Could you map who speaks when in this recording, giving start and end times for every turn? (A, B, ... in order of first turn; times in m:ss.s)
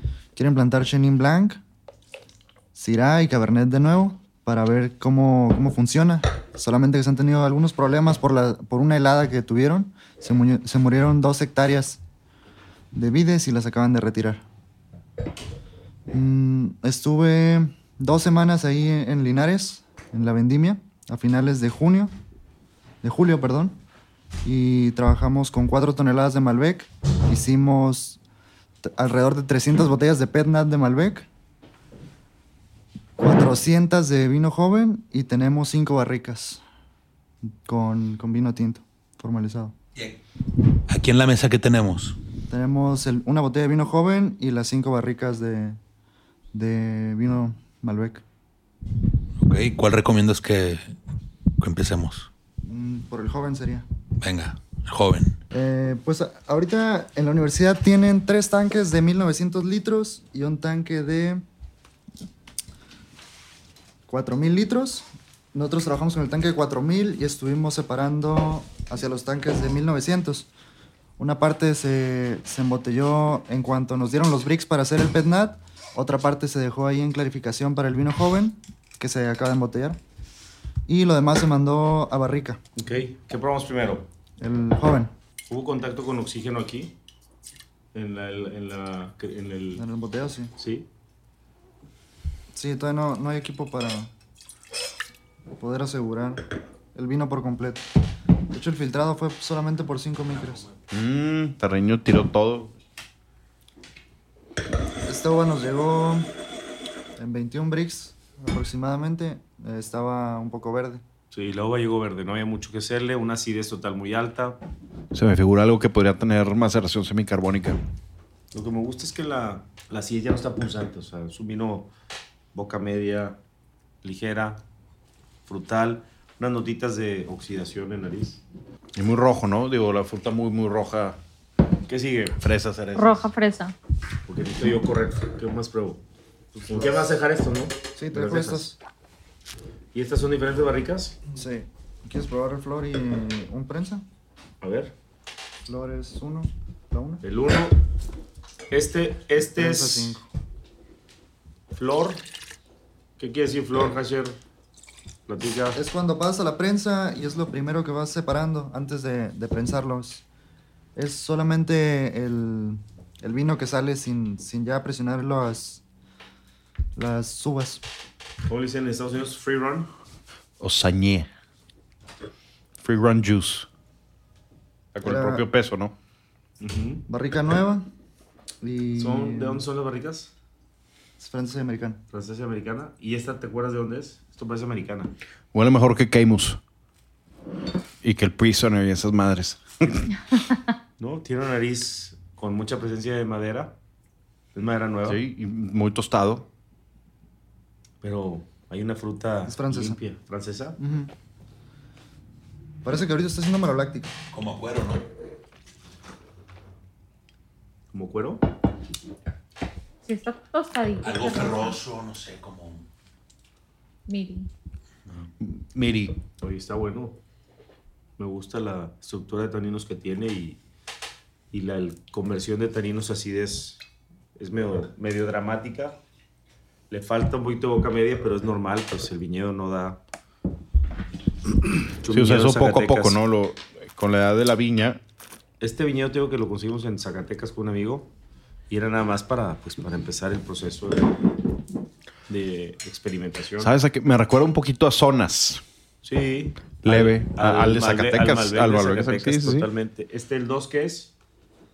0:00.3-0:01.6 A
0:02.7-0:12.0 A
0:12.9-0:14.4 A
0:16.1-0:22.1 A
0:23.0-0:23.8 A
0:24.4-0:28.2 A
0:28.8-0:31.2 A
0:33.2-0:36.6 A
0:37.6-0:39.7 A
0:40.9-0:42.2 B
0:42.5-0:45.8 A
0:46.5-0:48.2 A
0:49.4-0:50.9 B
0:51.6-0:52.3 B
0:52.6-0:53.8 A
0:54.2-0:55.4 B
0:55.5-1:01.4 A
1:04.1-1:10.5 A
1:11.2-1:20.0 A
1:20.9-1:22.6 A
1:22.8-1:24.1 C
1:24.4-1:25.1 A
1:25.5-1:26.9 C
1:27.9-1:29.8 C
1:29.8-1:30.5 A
1:30.6-1:30.9 C
1:32.5-1:34.1 A
1:35.5-1:37.9 A
1:38.5-1:40.6 A
1:40.9-1:42.7 D
1:45.0-1:46.3 A
1:47.2-1:51.0 A
1:51.3-1:54.6 C
1:55.1-1:57.8 D
1:58.5-2:01.9 C
2:02.5-2:03.4 C
2:04.0-2:04.6 C
2:05.4-2:08.4 C
2:09.0-2:11.2 D
2:11.9-2:12.4 C
2:12.4-2:13.3 D
2:12.9-2:13.7 E
2:14.3-2:16.0 C
2:16.6-2:18.7 C
2:18.0-2:18.8 A
2:19.9-2:21.2 C
2:21.3-2:24.0 A
2:24.6-2:24.9 C
2:25.6-2:27.2 A
2:27.2-2:27.8 C
2:28.7-2:30.2 C
2:29.5-2:30.2 A
2:31.7-2:32.2 C
2:33.2-2:34.4 C
2:35.3-2:35.8 C
2:35.7-2:40.2 A
2:41.0-2:45.8 A
2:47.0-2:47.8 A
2:48.5-2:49.9 C
2:50.6-2:51.3 D
2:52.8-2:53.7 D
2:54.9-2:55.9 D
2:55.0-2:55.4 A
2:56.6-2:57.0 C
2:57.1-2:57.9 A
2:58.6-2:59.6 A
2:59.0-3:00.3 C
3:01.2-3:02.0 A
3:02.1-3:05.1 C
3:05.5-3:06.6 D
3:08.0-3:10.1 D
3:11.0-3:13.7 C
3:14.5-3:15.2 C
3:15.0-3:16.5 D
3:18.0-3:20.8 C
3:19.4-3:20.0 A
3:20.8-3:21.1 A
3:22.8-3:24.1 A
3:24.3-3:25.1 B
3:27.9-3:28.4 C
3:30.0-3:31.8 E
3:31.0-3:32.8 B
3:34.1-3:34.5 E
3:35.4-3:36.2 D
3:36.4-3:37.2 C
3:38.2-3:40.6 C
3:41.5-3:43.8 C
3:44.4-3:46.0 C
3:46.9-3:50.0 C
3:51.8-3:53.2 C
3:52.1-3:55.0 D
3:55.6-3:58.1 C
3:58.7-4:01.2 C
4:02.3-4:03.7 C
4:03.6-4:05.6 D
4:06.0-4:11.1 C
4:06.8-4:09.7 D